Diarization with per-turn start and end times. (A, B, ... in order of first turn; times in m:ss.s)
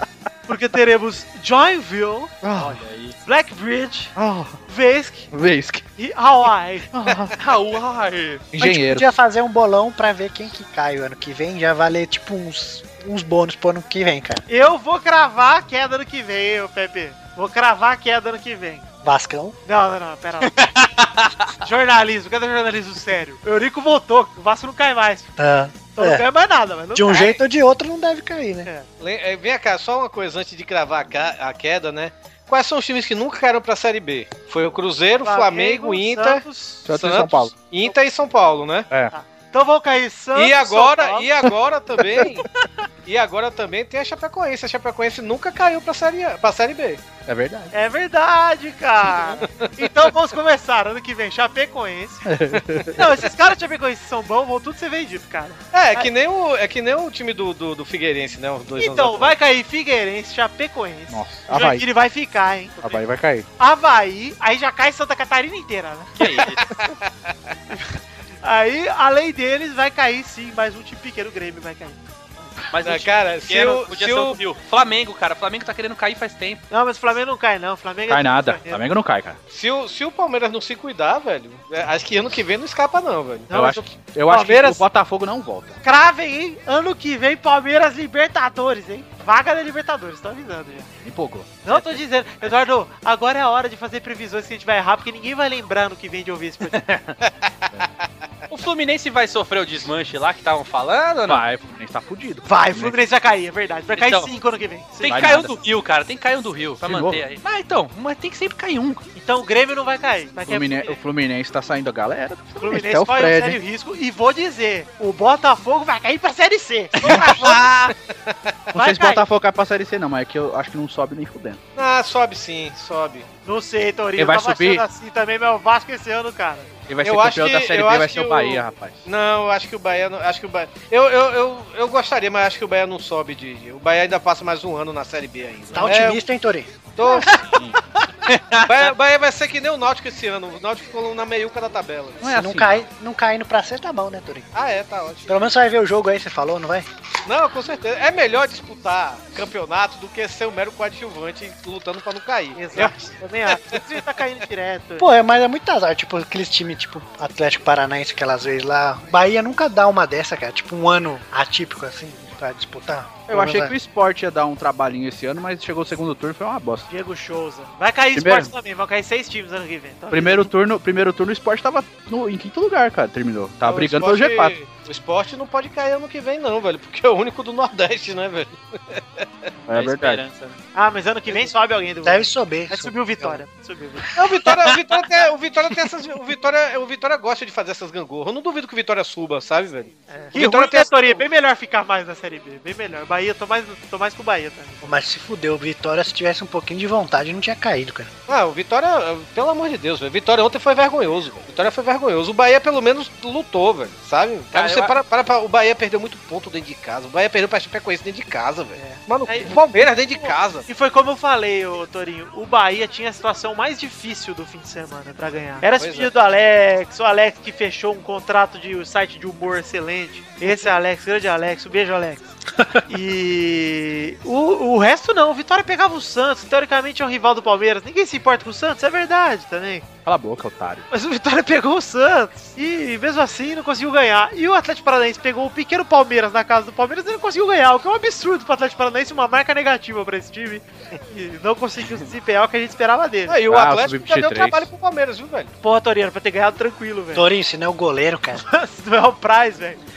0:00.5-0:02.5 A
0:02.4-0:02.8 B
0:02.5-0:03.2 C
0:03.2-0:04.2 A
0:04.2-0:04.6 B
0:04.7-0:05.3 A
0:05.3-0:05.8 B
0:06.0-0:06.9 A
0:06.9-0:07.4 B
0:07.3-0:08.5 C
0:08.5-0:09.1 B
0:08.6-0:14.4 D
0:14.5-0:18.8 A
0:19.0-0:19.6 D
0:19.7-0:20.6 A
0:20.4-0:21.5 C
0:21.6-0:25.3 A
0:25.4-0:26.3 D
0:26.0-0:27.4 A
0:26.9-0:28.7 D
0:29.0-0:38.9 E
0:35.2-0:36.9 A
0:36.9-0:37.5 B
0:39.1-0:41.3 A
0:40.4-0:42.4 E
0:43.0-0:47.0 E
0:47.3-0:47.7 B
0:47.7-0:52.3 A
0:52.2-0:53.0 B
0:52.9-0:56.1 A
0:55.7-0:59.4 E
0:58.8-1:03.0 A
1:01.1-1:01.8 B
1:02.8-1:03.5 B
1:03.6-1:06.2 A
1:06.2-1:06.7 C
1:06.8-1:07.0 E
1:08.4-1:12.0 A
1:12.7-1:16.6 C
1:12.8-1:14.4 E
1:16.7-1:18.8 A
1:18.1-1:19.4 B
1:19.5-1:23.5 E
1:23.5-1:24.8 A
1:23.5-1:25.8 B
1:25.8-1:30.9 A
1:31.0-1:31.8 B
1:31.6-1:36.8 A
1:36.7-1:37.2 C
1:38.5-1:41.4 C
1:41.3-1:43.0 B
1:42.4-1:45.4 A
1:43.9-1:44.3 C
1:45.0-1:49.0 C
1:45.1-1:45.5 B
1:46.8-1:47.2 B
1:49.2-1:51.0 A
1:50.5-1:53.6 B
1:52.6-1:57.5 A
1:57.0-1:57.4 C
1:57.1-1:57.6 B
1:57.4-1:58.5 E
1:58.7-2:01.6 B
1:58.7-1:59.2 A
2:01.8-2:03.3 E
2:03.5-2:06.7 A
2:04.2-2:04.8 B
2:06.9-2:09.0 B
2:07.0-2:16.2 E
2:15.7-2:16.8 D
2:17.0-2:17.7 E
2:18.3-2:19.0 C
2:18.6-2:22.2 E
2:22.2-2:22.8 C
2:22.2-2:24.5 D
2:24.6-2:25.3 E
2:25.3-2:26.9 D
2:27.3-2:33.8 E
2:32.6-2:35.1 A
2:35.0-2:43.7 D
2:43.3-2:46.9 B
2:46.9-2:50.5 A
2:48.2-2:48.5 B
2:50.1-2:54.6 B
2:53.6-2:59.5 E
2:59.7-3:00.2 B
2:59.7-3:00.6 C
3:00.7-3:04.1 A
3:02.0-3:03.4 D
3:04.2-3:11.2 E
3:10.1-3:14.9 A
3:14.8-3:18.1 D
3:18.3-3:30.7 E
3:24.5-3:25.0 C
3:28.8-3:42.2 A
3:35.8-3:36.2 E
3:42.9-3:49.8 A
3:50.1-3:50.8 B
3:50.9-4:03.4 A
4:03.3-4:05.5 E
4:03.5-4:04.7 B
4:05.6-4:07.3 A
4:07.1-4:08.4 D
4:08.5-4:09.8 A